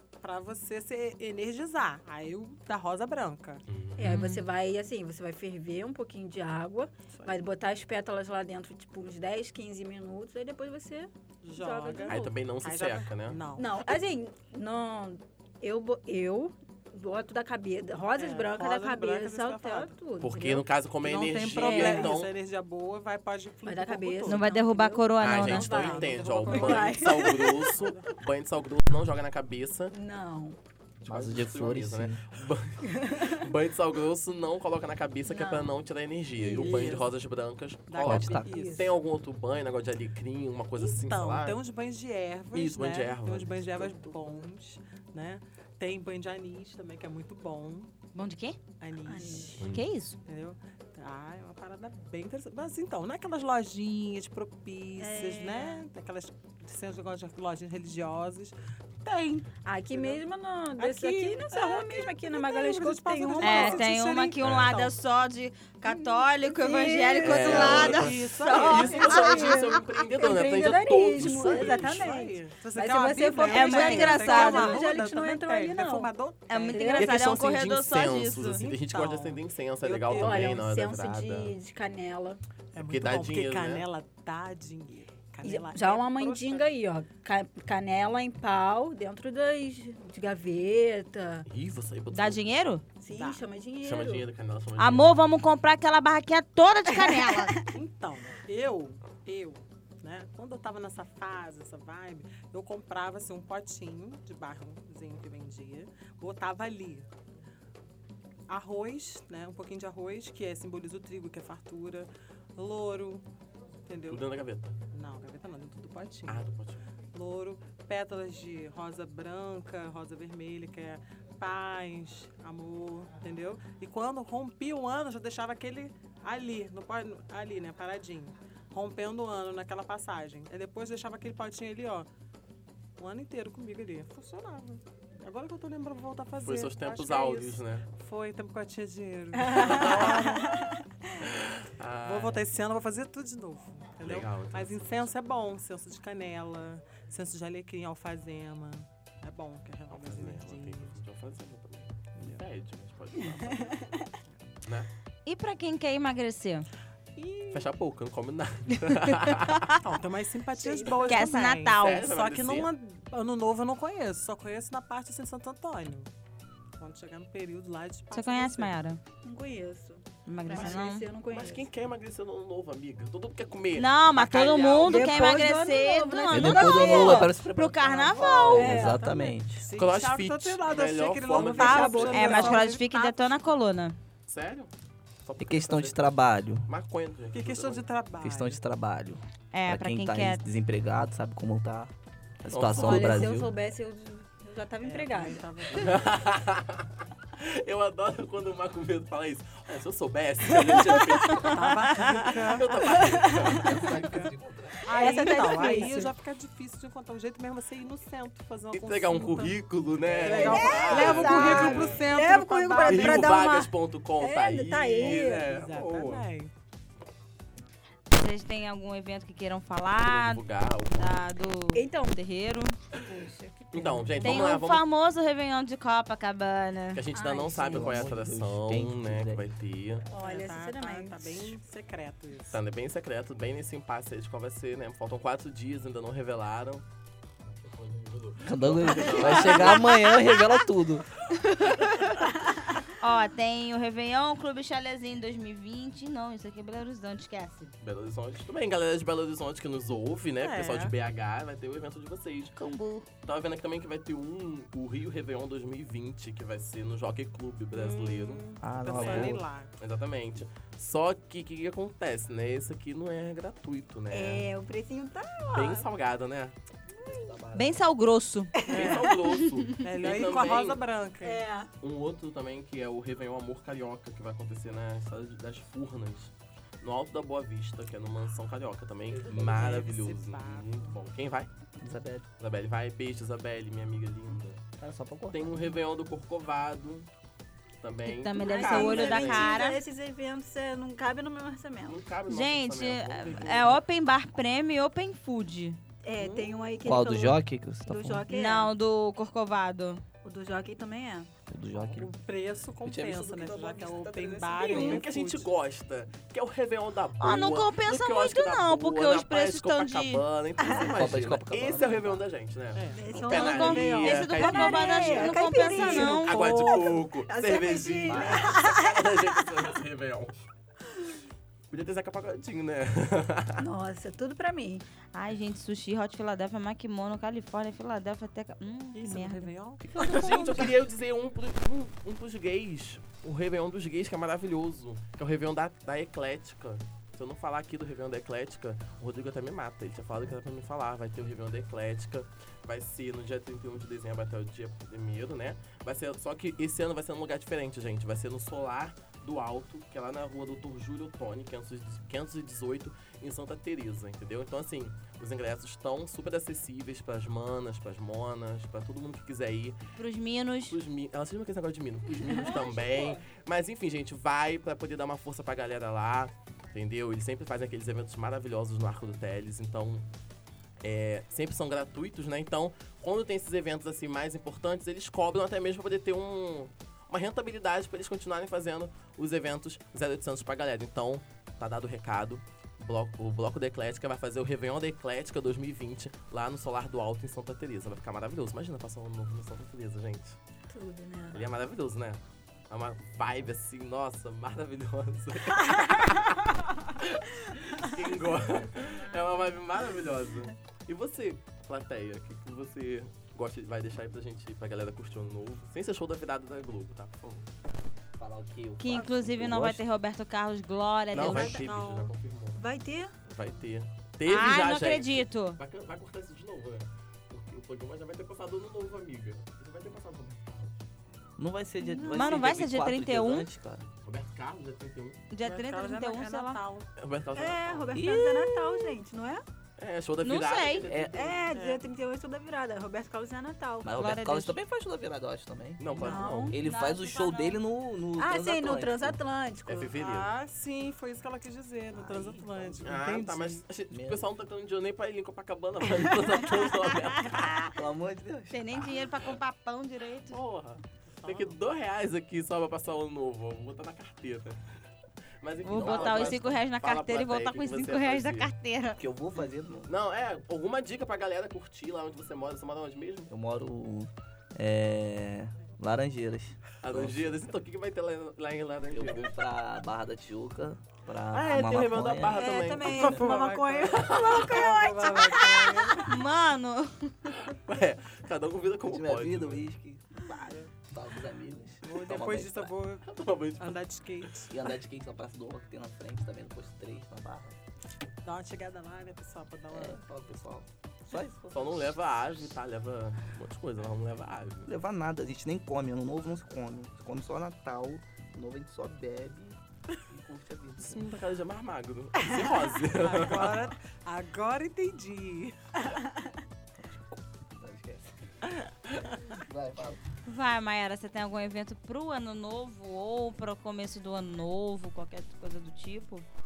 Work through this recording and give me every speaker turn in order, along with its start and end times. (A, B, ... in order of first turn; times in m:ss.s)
0:00.2-0:03.6 A
0:03.7-0:04.2 B
0:04.0-0:12.4 C
0:04.0-0:04.4 D
0:11.4-0:14.0 A
0:12.1-0:13.4 B
0:13.6-0:20.6 C
0:18.2-0:20.0 A
0:20.2-0:22.3 B
0:21.0-0:24.4 A
0:21.6-0:22.2 C
0:23.7-0:27.8 C
0:24.3-0:25.9 D
0:25.2-0:29.9 B
0:25.4-0:28.1 A
0:29.9-0:30.6 C
0:31.0-0:41.6 B
0:31.1-0:32.2 E
0:32.8-0:33.5 C
0:35.3-0:35.8 C
0:36.4-0:37.0 C
0:36.5-0:37.1 A
0:37.9-0:38.9 A
0:38.0-0:38.5 E
0:38.5-0:38.8 C
0:40.8-0:47.9 A
0:42.5-0:44.3 B
0:48.1-0:48.6 D
0:48.8-0:49.6 A
0:49.1-0:49.7 C
0:49.6-0:49.9 B
0:49.7-0:50.2 D
0:50.3-1:00.2 A
0:55.0-0:55.8 C
0:59.6-1:03.8 C
1:00.8-1:05.0 A
1:03.4-1:09.3 D
1:04.4-1:04.8 B
1:05.8-1:08.0 C
1:07.2-1:12.2 B
1:07.5-1:09.7 A
1:08.6-1:17.2 C
1:11.2-1:16.9 A
1:13.5-1:14.8 D
1:16.5-1:18.6 D
1:17.0-1:21.6 B
1:18.6-1:20.6 A
1:20.1-1:22.4 C
1:22.7-1:26.7 A
1:22.8-1:23.8 B
1:25.4-1:31.5 C
1:31.5-1:32.5 B
1:32.1-1:32.8 D
1:33.0-1:34.2 C
1:33.1-1:33.4 A
1:33.8-1:35.1 B
1:34.8-1:37.6 D
1:36.9-1:37.7 C
1:37.7-1:47.1 A
1:48.5-1:53.2 A
1:53.9-1:54.2 A
1:54.1-1:54.8 B
1:54.9-1:56.4 A
1:56.3-1:56.8 B
1:57.1-2:12.1 A
2:13.0-2:20.7 A
2:16.4-2:17.9 B
2:19.4-2:20.9 C
2:19.6-2:20.2 B
2:21.2-2:22.4 B
2:22.0-2:31.0 A
2:24.0-2:25.1 B
2:29.9-2:34.1 B
2:32.2-2:32.4 A
2:33.6-2:34.1 C
2:34.6-2:34.9 B
2:35.3-2:36.7 D
2:37.2-2:37.7 A
2:37.5-2:39.7 B
2:39.8-2:46.1 A
2:40.6-2:41.3 C
2:41.0-2:42.1 D
2:41.8-2:42.7 B
2:46.8-2:48.8 A
2:48.1-2:49.0 D
2:49.2-2:51.7 C
2:50.3-2:51.0 D
2:50.5-2:55.4 B
2:53.8-2:59.0 D
2:54.8-2:57.3 C
2:56.3-2:59.6 E
2:58.5-2:59.3 C
2:58.8-3:02.9 A
2:59.8-3:02.4 B
3:01.3-3:03.2 C
3:02.1-3:04.0 D
3:04.3-3:04.7 B
3:05.2-3:07.9 B
3:05.4-3:06.7 E
3:07.3-3:08.6 A
3:08.2-3:13.5 E
3:09.5-3:10.4 D
3:12.5-3:13.3 B
3:12.7-3:15.4 C
3:14.8-3:16.1 A
3:15.7-3:23.8 B
3:20.6-3:21.5 C
3:21.4-3:22.7 A
3:22.7-3:23.8 C
3:23.2-3:24.9 E
3:23.8-3:24.3 A
3:24.8-3:33.3 A
3:24.9-3:26.1 C
3:28.7-3:32.0 B
3:30.2-3:35.5 C
3:32.8-3:36.3 B
3:35.0-3:36.5 A
3:38.1-3:42.8 D
3:40.0-3:41.2 B
3:41.7-3:42.2 C
3:42.9-3:44.5 C
3:43.7-3:44.8 B
3:44.2-3:47.0 D
3:46.9-3:50.1 B
3:47.1-3:48.1 C
3:47.7-3:49.4 E
3:50.1-3:51.5 C
3:50.2-3:52.6 A
3:52.5-3:56.8 B
3:57.4-3:59.9 B
3:58.4-4:01.1 E
3:59.2-4:00.5 D
4:01.4-4:02.0 D
4:03.0-4:07.7 D
4:07.8-4:12.6 B
4:10.4-4:10.9 A
4:12.6-4:13.1 E
4:13.2-4:24.5 B
4:17.7-4:19.7 A
4:18.6-4:19.4 E
4:24.1-4:25.9 C
4:25.5-4:26.6 B
4:27.0-4:27.3 C
4:27.1-4:27.8 E
4:27.5-4:28.6 D
4:28.6-4:29.1 C
4:28.7-4:29.1 A
4:28.7-4:30.8 B
4:29.2-4:29.6 D
4:29.8-4:31.4 A
4:31.2-4:31.7 C
4:31.8-4:41.5 B
4:39.1-4:39.8 E
4:39.3-4:41.0 A
4:41.8-4:42.3 E
4:42.4-4:44.6 B
4:44.8-4:45.8 E
4:45.3-4:47.1 B
4:47.8-4:49.5 B
4:48.0-4:49.8 D
4:48.4-4:52.0 C
4:51.8-4:53.8 B
4:52.3-4:55.8 D
4:56.0-4:58.7 C
4:56.2-4:56.6 A
4:56.8-4:58.3 E
4:58.3-5:00.0 D
5:00.2-5:01.3 C
5:01.5-5:02.1 E
5:01.8-5:02.0 B
5:01.9-5:05.5 A
5:02.8-5:05.0 E
5:04.7-5:20.4 B
5:07.2-5:10.2 D
5:10.6-5:10.9 C
5:10.7-5:12.2 E
5:12.8-5:13.1 A
5:12.9-5:19.3 C
5:13.2-5:16.7 D
5:18.1-5:18.6 E
5:21.7-5:23.6 B
5:23.6-5:24.9 C
5:25.1-5:29.5 D
5:28.9-5:30.8 A
5:30.0-5:59.8 B
6:00.0-6:00.8 D
6:00.7-6:10.1 B
6:10.8-6:30.4 B
6:30.7-6:31.4 C
6:31.3-6:47.5 B
6:48.2-6:49.8 E
6:48.8-6:51.6 D
6:51.1-6:52.6 B
6:51.2-6:51.6 C
6:51.2-6:52.1 A
6:52.6-6:53.1 C
6:53.3-7:00.8 B
6:54.3-6:55.6 D
7:01.4-7:03.9 E
7:01.9-7:02.3 C
7:02.0-7:03.5 D
7:04.0-7:05.2 B
7:05.3-7:06.6 D
7:05.4-7:06.9 A
7:07.0-7:08.0 B
7:07.3-7:09.4 C
7:07.9-7:08.5 E
7:08.2-7:08.9 D
7:09.8-7:11.5 B
7:10.2-7:10.9 D
7:10.9-7:11.3 E
7:11.1-7:14.0 C
7:11.5-7:11.8 A
7:13.8-7:19.2 E
7:14.0-7:14.6 D
7:15.8-7:16.6 B
7:16.0-7:16.6 C
7:16.0-7:16.3 A
7:16.6-7:17.6 D
7:18.2-7:19.9 C
7:19.7-7:20.3 B
7:20.0-7:23.6 A
7:21.9-7:22.9 E
7:22.8-7:27.7 B
7:23.9-7:24.3 E
7:27.2-7:27.8 D
7:27.7-7:29.0 E
7:28.5-7:30.4 D
7:30.3-7:34.6 B
7:31.2-7:31.6 A
7:35.4-7:38.5 B
7:35.6-7:39.0 D
7:35.8-7:36.4 E
7:39.0-7:39.9 E
7:39.9-7:43.3 B
7:43.3-7:47.5 E
7:46.8-7:49.3 B
7:48.9-7:52.6 E
7:51.3-7:53.2 B
7:52.3-7:56.1 C
7:52.8-7:56.1 A
7:53.9-7:54.6 B
7:56.0-7:57.4 D
7:57.3-7:59.7 B
7:58.8-8:02.7 E
8:01.8-8:04.6 A
8:03.0-8:03.8 B
8:04.5-8:07.6 E
8:08.2-8:10.0 A
8:09.7-8:12.0 E
8:11.5-8:14.7 B
8:14.7-8:21.1 E
8:20.8-8:23.7 B
8:22.9-8:25.7 A
8:26.8-8:28.2 E
8:29.2-8:30.0 E
8:30.3-8:36.3 D